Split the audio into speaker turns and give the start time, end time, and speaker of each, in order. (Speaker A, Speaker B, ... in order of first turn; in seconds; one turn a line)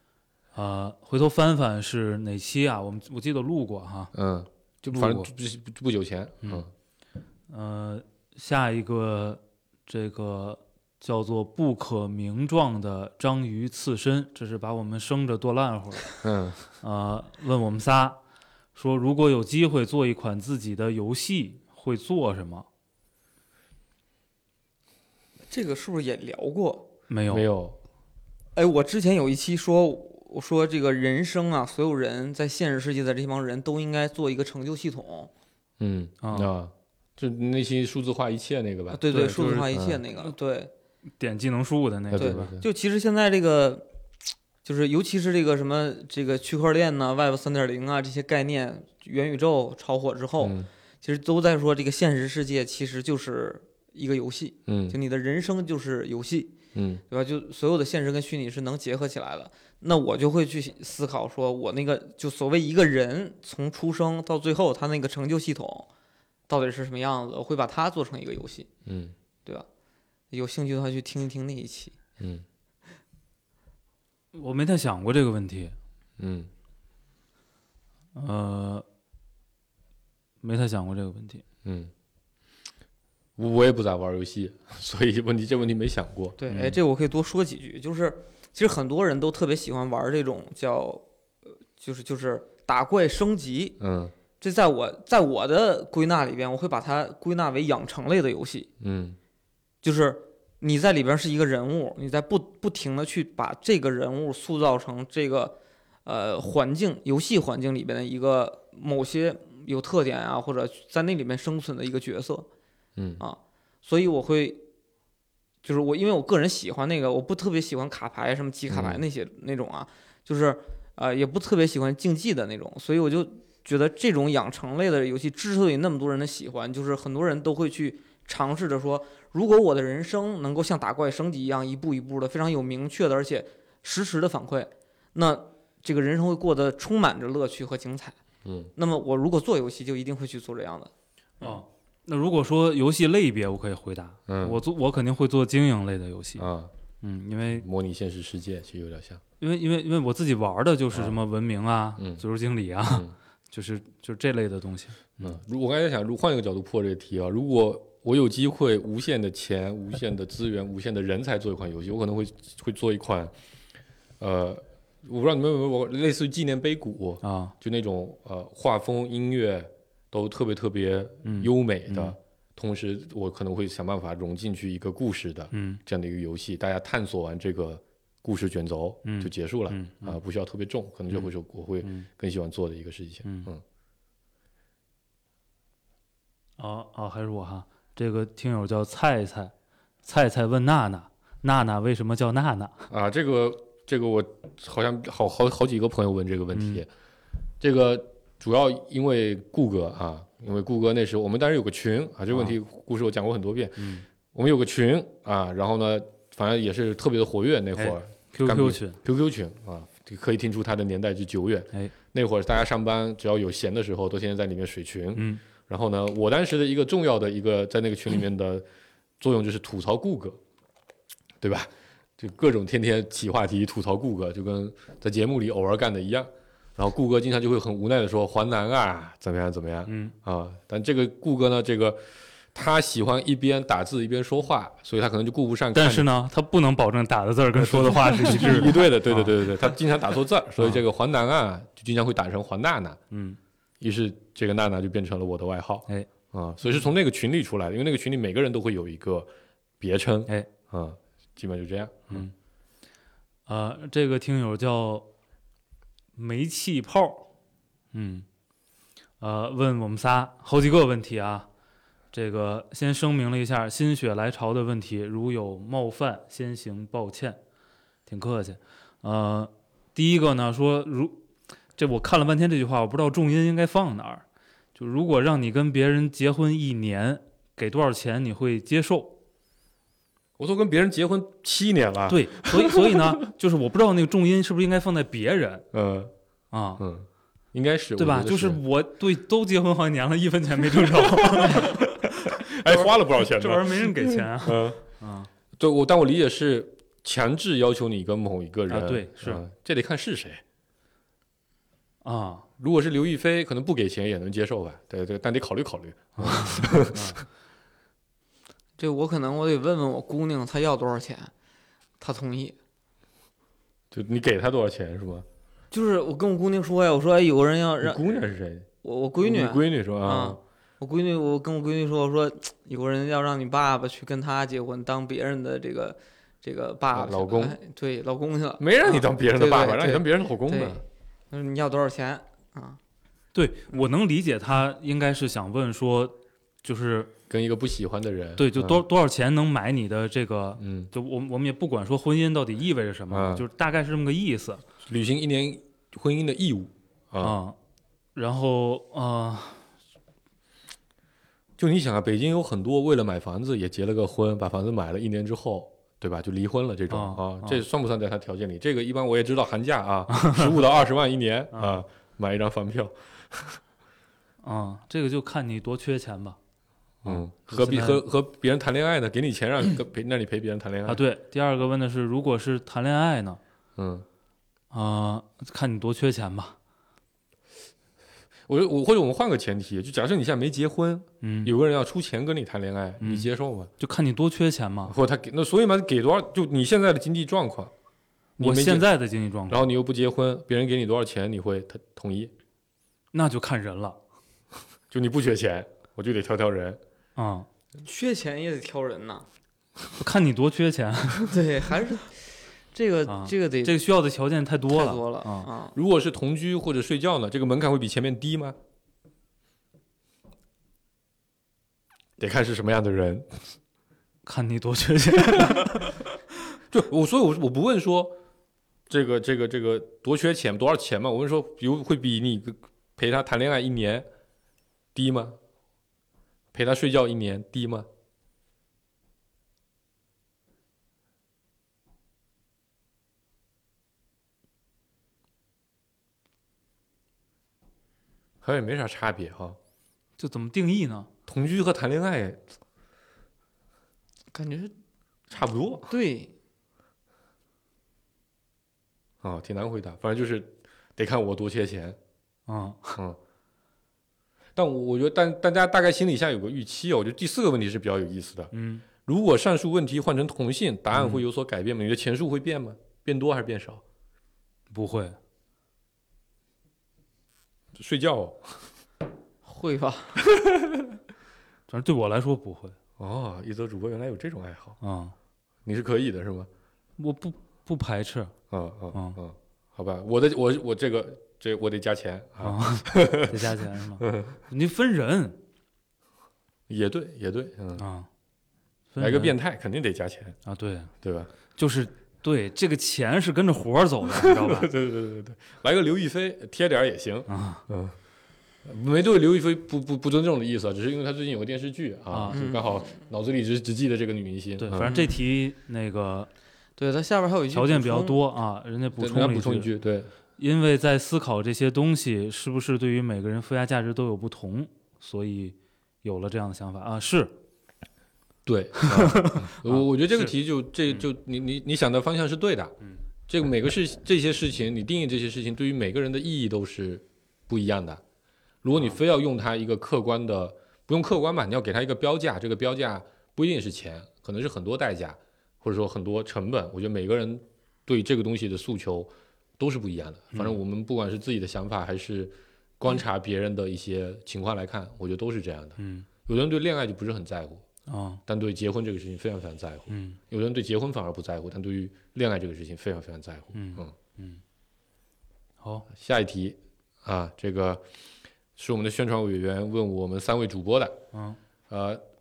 Speaker A: 0.5-4.1
Speaker B: 4.1-6.7
Speaker A: 4.8-5.3
Speaker A: 7.5-16.2
Speaker B: 16.2-16.6
Speaker A: 16.8-18.2
Speaker A: 18.7-22.7
Speaker C: 25.5-26.9
Speaker A: 27.1-27.5
Speaker B: 27.3-27.8
Speaker C: 28.6-35.3
Speaker B: 35.8-40.0
Speaker A: 36.2-36.5
Speaker C: 38.9-40.7
Speaker A: 39.1-40.3
Speaker A: 41.2-42.5
Speaker B: 42.1-42.6
Speaker C: 42.2-43.9
Speaker C: 44.6-56.5
Speaker B: 50.4-50.7
Speaker B: 54.7-55.0
Speaker B: 56.7-57.0
Speaker C: 57.1-65.9
Speaker C: 66.5-68.7
Speaker B: 68.8-69.1
Speaker C: 70.3-72.0
Speaker B: 72.2-72.4
Speaker A: 74.3-75.8
Speaker B: 76.2-76.5
Speaker A: 78.1-78.8
Speaker A: 80.4-81.4
Speaker B: 81.6-81.9
Speaker B: 83.4-86.7
Speaker C: 86.4-91.0
Speaker C: 91.8-93.8
Speaker B: 93.8-94.1
Speaker C: 94.4-98.7
Speaker B: 98.8-99.2
Speaker C: 99.8-112.5
Speaker B: 113.0-113.2
Speaker C: 113.2-114.6
Speaker C: 115.6-138.2
Speaker B: 118.7-119.0
Speaker B: 138.4-138.7
Speaker C: 138.7-141.6
Speaker A: 141.4-146.5
Speaker B: 144.3-144.6
Speaker B: 146.4-146.7
Speaker A: 147.0-147.6
Speaker B: 147.5-149.2
Speaker A: 149.4-155.4
Speaker B: 152.0-152.2
Speaker B: 152.9-153.1
Speaker B: 155.2-163.3
Speaker B: 164.2-183.6
Speaker A: 167.2-167.5
Speaker A: 171.2-172.2
Speaker A: 175.5-175.8
Speaker A: 179.0-180.2
Speaker A: 183.2-183.5
Speaker A: 186.6-189.5
Speaker A: 190.0-192.9
Speaker B: 192.9-196.9
Speaker A: 196.5-196.8
Speaker B: 197.6-218.7
Speaker A: 203.8-204.0
Speaker A: 207.8-209.0
Speaker A: 215.1-215.4
Speaker B: 219.2-220.4
Speaker B: 221.4-236.1
Speaker A: 229.9-230.1
Speaker A: 235.7-239.3
Speaker B: 237.6-243.0
Speaker A: 243.1-243.4
Speaker B: 243.8-252.3
Speaker A: 253.5-255.1
Speaker A: 256.1-257.3
Speaker A: 257.9-258.2
Speaker A: 259.2-261.5
Speaker A: 262.1-267.4
Speaker A: 268.1-271.2
Speaker A: 271.8-274.2
Speaker A: 274.7-279.1
Speaker B: 280.4-283.1
Speaker A: 282.1-285.7
Speaker B: 285.7-286.1
Speaker A: 286.5-286.8
Speaker B: 286.8-288.6
Speaker A: 288.0-295.3
Speaker B: 290.9-294.8
Speaker B: 295.6-300.4
Speaker A: 298.7-299.4
Speaker A: 302.0-302.4
Speaker B: 302.6-307.2
Speaker A: 306.2-307.2
Speaker C: 308.8-311.3
Speaker C: 312.0-312.6
Speaker B: 313.9-315.2
Speaker C: 315.7-318.2
Speaker B: 317.8-318.7
Speaker C: 318.8-332.8
Speaker B: 319.2-320.4
Speaker B: 326.9-327.6
Speaker B: 328.6-330.8
Speaker A: 333.3-337.1
Speaker B: 337.3-338.8
Speaker A: 338.4-344.6
Speaker B: 340.6-340.9
Speaker B: 343.1-343.4
Speaker B: 344.9-347.4
Speaker A: 347.2-347.6
Speaker A: 348.1-349.6
Speaker B: 351.6-363.6
Speaker A: 356.9-357.6
Speaker A: 360.2-360.5
Speaker A: 361.5-361.8
Speaker A: 364.4-366.4
Speaker A: 367.0-368.0
Speaker B: 367.0-371.0
Speaker A: 370.9-373.4
Speaker B: 373.8-374.1
Speaker A: 374.7-376.5
Speaker B: 378.5-383.7
Speaker A: 381.2-381.5
Speaker A: 383.0-384.9
Speaker B: 384.9-387.7
Speaker B: 388.4-388.9
Speaker A: 388.4-389.6
Speaker B: 389.5-392.3
Speaker A: 393.1-394.0
Speaker B: 394.9-396.8
Speaker A: 397.1-397.5
Speaker C: 397.8-399.2
Speaker A: 399.9-401.4
Speaker C: 401.3-403.8
Speaker A: 403.1-405.5
Speaker C: 404.7-405.8
Speaker B: 405.7-408.6
Speaker B: 412.2-413.4
Speaker A: 414.2-416.1
Speaker B: 415.2-415.6
Speaker B: 416.7-418.2
Speaker B: 418.9-424.1
Speaker B: 424.9-425.4
Speaker B: 426.5-427.9
Speaker B: 438.4-439.6
Speaker A: 440.2-441.1
Speaker B: 441.3-442.4
Speaker C: 444.3-444.7
Speaker B: 445.3-445.9
Speaker C: 445.9-446.3
Speaker B: 449.2-452.0
Speaker A: 452.5-453.0
Speaker B: 454.6-463.8
Speaker A: 458.5-458.8
Speaker A: 460.9-461.2
Speaker A: 464.7-465.2
Speaker B: 467.7-468.7
Speaker C: 469.4-470.2
Speaker B: 470.3-470.8
Speaker A: 471.7-472.8
Speaker B: 473.0-474.8
Speaker A: 474.8-475.1
Speaker B: 475.6-476.5
Speaker A: 477.0-478.3
Speaker B: 478.5-484.4
Speaker A: 478.9-479.2
Speaker A: 482.4-485.4
Speaker B: 486.7-487.8
Speaker A: 487.8-488.1
Speaker A: 488.9-489.3
Speaker B: 489.0-490.4
Speaker A: 490.4-490.9
Speaker B: 491.0-491.3
Speaker A: 491.5-494.7
Speaker B: 494.1-497.9
Speaker A: 497.3-497.6
Speaker B: 498.6-504.9
Speaker A: 502.1-502.4
Speaker C: 502.3-503.0
Speaker A: 504.6-506.3
Speaker C: 504.8-505.2
Speaker C: 506.8-508.2
Speaker A: 507.5-509.7
Speaker B: 509.0-510.1
Speaker A: 510.4-517.3
Speaker B: 518.5-522.7
Speaker A: 518.8-520.3
Speaker B: 523.3-528.0
Speaker B: 528.6-547.6
Speaker A: 528.7-529.0
Speaker A: 540.3-540.6
Speaker A: 545.8-546.1
Speaker A: 547.9-548.2
Speaker B: 548.3-553.9
Speaker A: 549.9-550.2
Speaker A: 553.5-554.4
Speaker A: 555.6-555.9
Speaker B: 555.9-557.8
Speaker B: 558.5-561.0
Speaker A: 561.1-561.4
Speaker B: 561.7-562.0